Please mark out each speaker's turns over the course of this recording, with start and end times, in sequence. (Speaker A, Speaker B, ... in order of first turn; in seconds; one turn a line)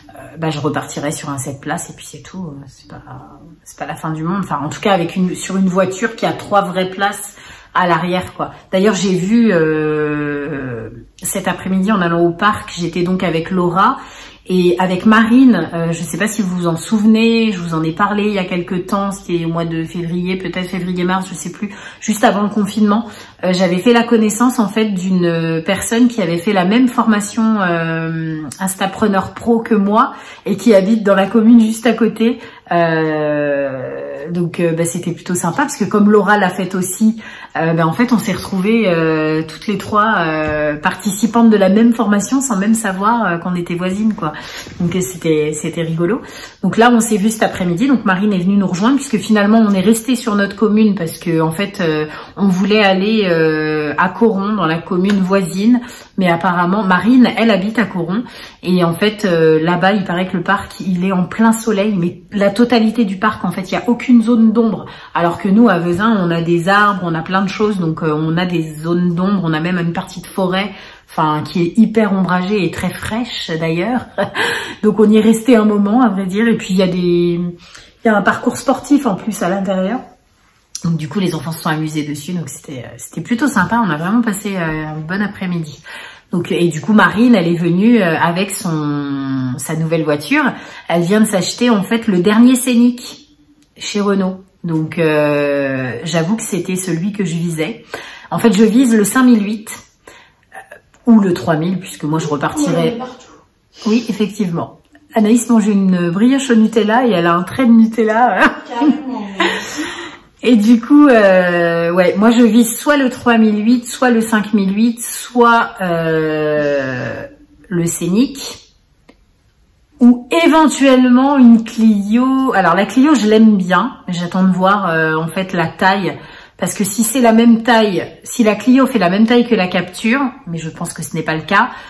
Speaker A: 0.3-80.0
Speaker A: 80.8-93.2
Speaker A: 93.8-99.8
Speaker A: 101.0-103.1
Speaker A: 103.8-109.7
Speaker A: 110.4-118.6
Speaker A: 120.0-131.7